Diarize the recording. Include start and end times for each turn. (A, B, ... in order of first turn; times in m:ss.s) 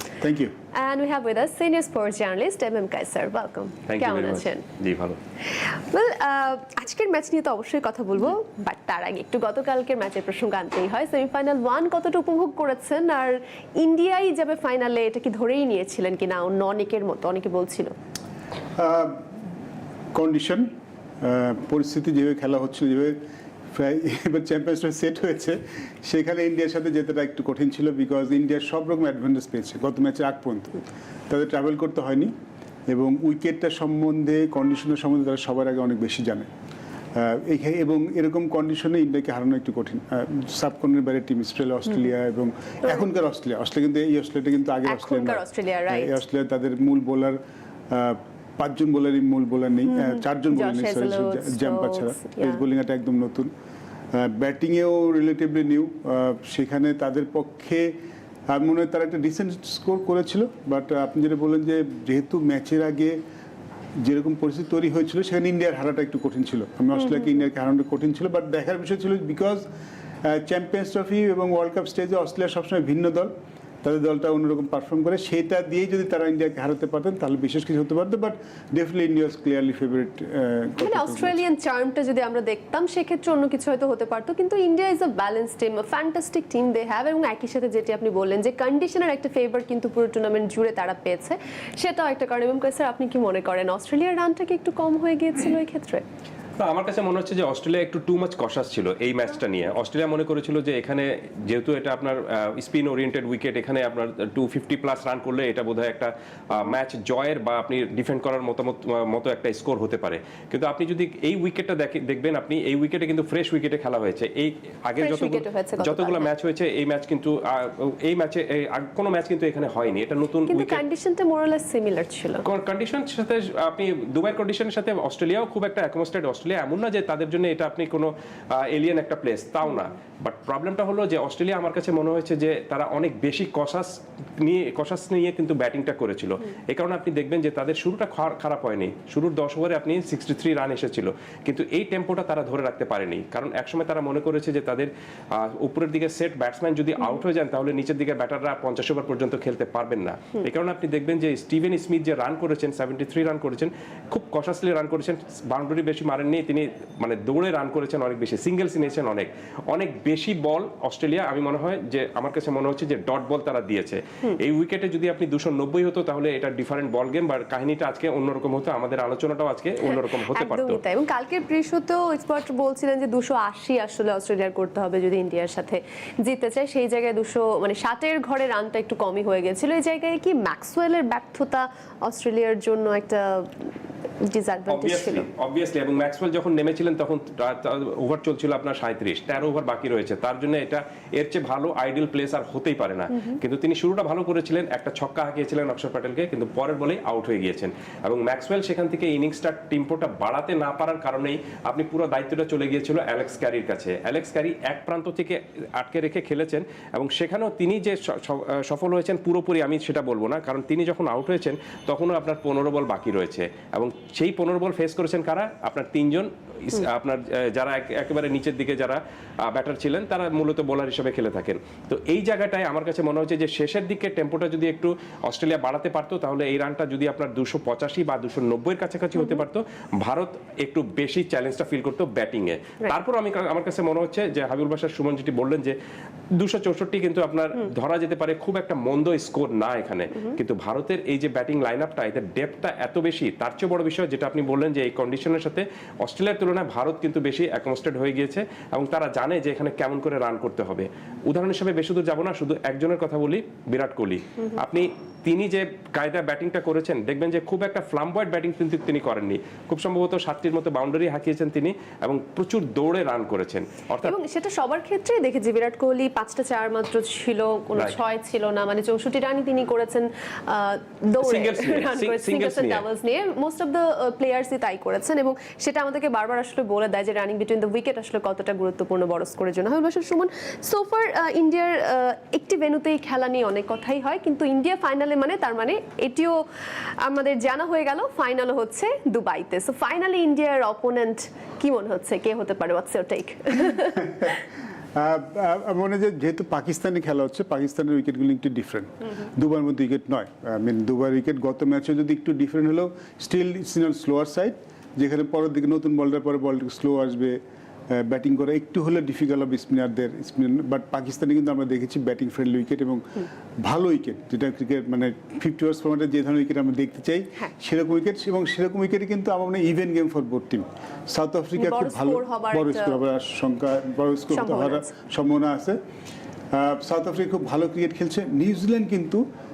0:00.2-0:00.5 A
0:00.8-0:04.6 B
0:03.9-0:05.2 C
0:05.5-0:17.9 B
0:18.8-0:19.3 A
0:20.1-0:23.2 A
0:23.7-0:32.3 A
0:32.9-0:36.5 A
0:37.2-0:53.5 A
0:44.8-0:46.2 B
0:49.9-0:52.6 B
0:54.1-0:58.0 A
0:58.5-1:03.2 A
1:04.0-1:09.7 A
1:07.0-1:07.4 B
1:10.2-1:21.4 A
1:20.8-1:36.0 B
1:36.6-2:00.8 C
1:55.0-1:56.3 B
2:00.5-2:02.4 B
2:02.4-2:50.8 C
2:49.8-3:05.2 B
3:04.7-3:55.8 C
3:13.1-3:13.4 B
3:56.4-4:24.2 C
4:24.0-4:46.4 B
4:31.2-4:32.8 C
4:47.0-4:54.3 B
4:53.8-4:54.4 A
4:54.9-5:25.8 A
5:21.6-5:23.0 B
5:24.3-5:24.9 B
5:26.5-5:29.2 A